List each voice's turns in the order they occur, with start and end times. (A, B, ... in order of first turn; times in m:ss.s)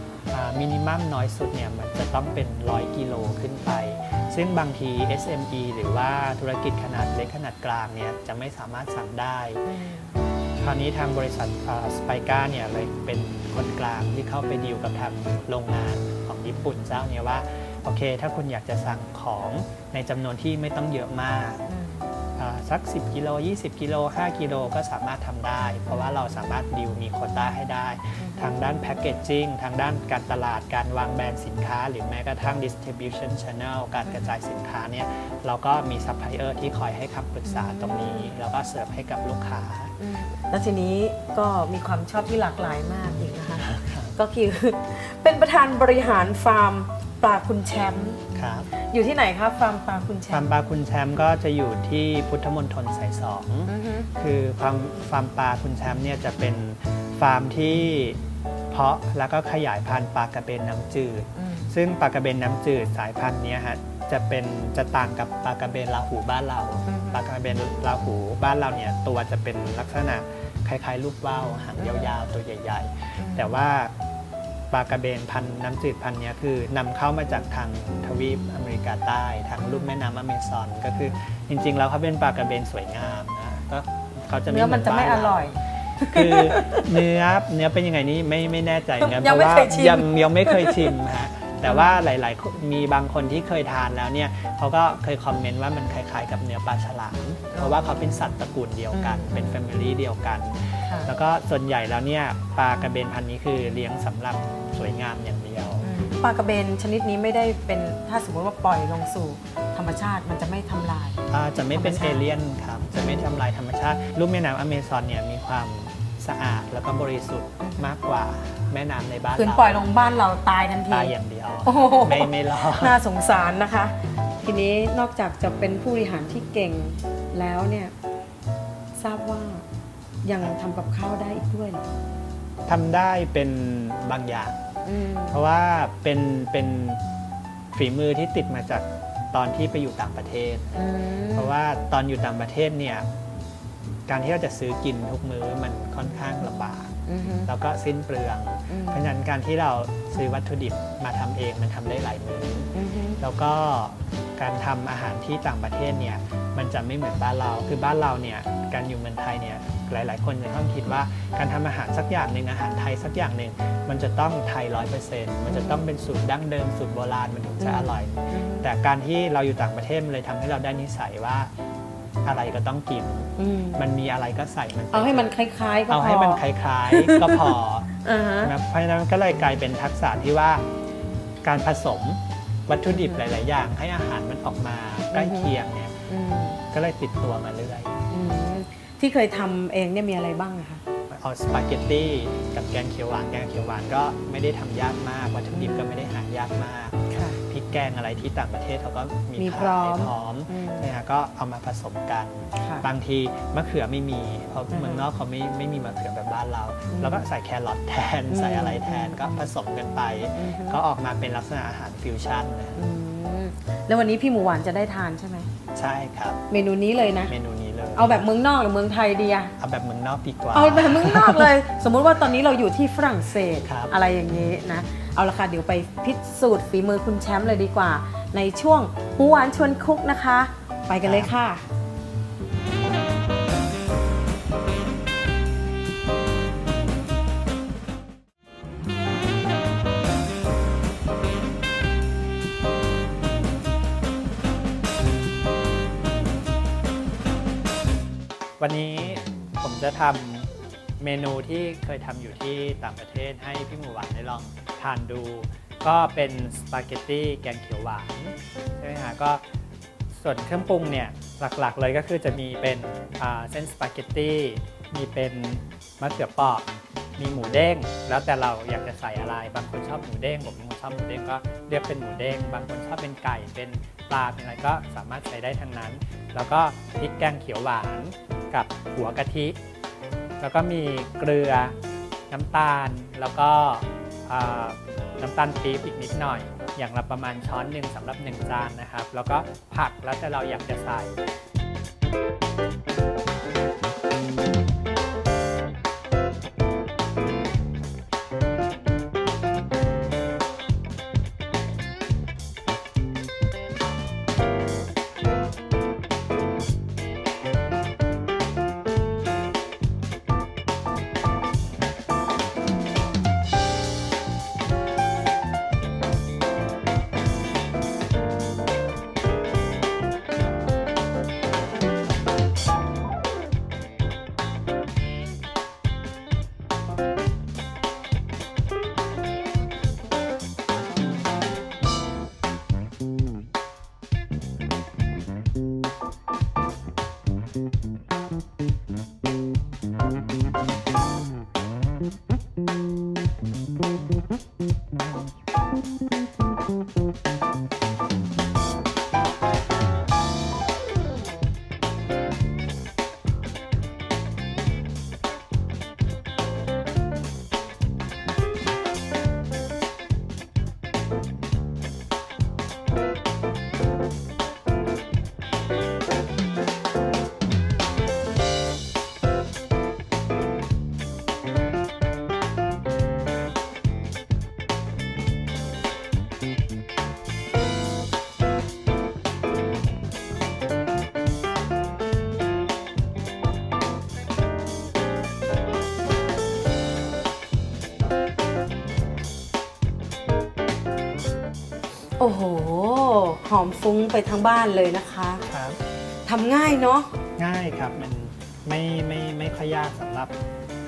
0:00.3-0:09.6 A
0:09.6-0:10.1 B
0:10.6-0:21.6 A
0:21.7-0:22.1 B
0:22.4-0:39.9 A
0:28.2-0:28.6 B
0:34.0-0:34.3 B
0:37.4-0:38.3 B
0:40.0-0:48.2 B
0:43.6-0:44.1 A
0:48.3-0:48.7 A
0:48.7-0:50.4 B
0:50.3-0:58.2 A
0:53.7-0:54.1 B
0:58.7-1:13.9 A
1:01.4-1:01.7 B
1:06.9-1:07.2 B
1:11.8-1:12.1 B
1:13.2-1:13.5 B
1:14.7-1:25.4 A
1:19.6-1:19.9 B
1:24.5-1:26.9 B
1:26.0-1:45.9 A
1:29.0-1:31.0 B
1:31.6-1:32.0 B
1:37.5-1:38.1 B
1:38.9-1:39.7 B
1:45.8-1:51.2 B
1:51.3-1:59.9 A
1:51.7-1:52.2 B
1:57.6-1:57.9 B
1:59.4-2:01.1 B
2:00.9-2:03.0 A
2:01.6-2:07.9 B
2:09.0-2:09.6 B
2:10.2-2:11.8 B
2:12.7-2:14.6 A
2:14.8-2:15.4 B
2:15.3-2:17.0 A
2:17.7-2:20.7 A
2:20.8-2:21.5 B
2:21.3-2:23.1 A
2:24.1-2:51.5 A
2:27.1-2:27.5 B
2:28.7-2:29.1 B
2:32.7-2:33.2 B
2:45.5-2:45.8 B
2:47.6-2:48.7 B
2:52.2-2:55.3 A
2:53.4-2:53.8 B
2:54.9-2:58.5 B
2:55.9-3:00.6 A
3:01.4-3:05.9 A
3:02.9-3:03.2 B
3:05.1-3:05.5 B
3:06.1-3:06.6 B
3:06.7-3:08.0 A
3:08.1-3:10.8 B
3:11.1-3:32.8 A
3:15.6-3:15.9 B
3:17.1-3:17.4 B
3:19.4-3:20.9 B
3:22.6-3:22.8 B
3:24.7-3:25.0 B
3:26.9-3:27.3 B
3:28.3-3:29.5 B
3:30.4-3:30.8 B
3:32.8-3:35.5 B
3:35.7-3:36.4 A
3:36.5-3:37.3 B
3:37.3-3:38.2 A
3:38.0-3:39.5 B
3:39.6-3:41.5 A
3:40.5-3:51.6 B
3:43.6-3:43.9 A
3:51.0-3:51.3 A
4:08.6-4:19.4 A
4:20.1-4:39.6 A
4:40.4-4:41.7 A
4:42.3-4:51.2 A
6:32.2-6:35.4 B
6:35.5-6:35.8 A
6:36.2-6:37.1 B
6:37.4-6:40.4 A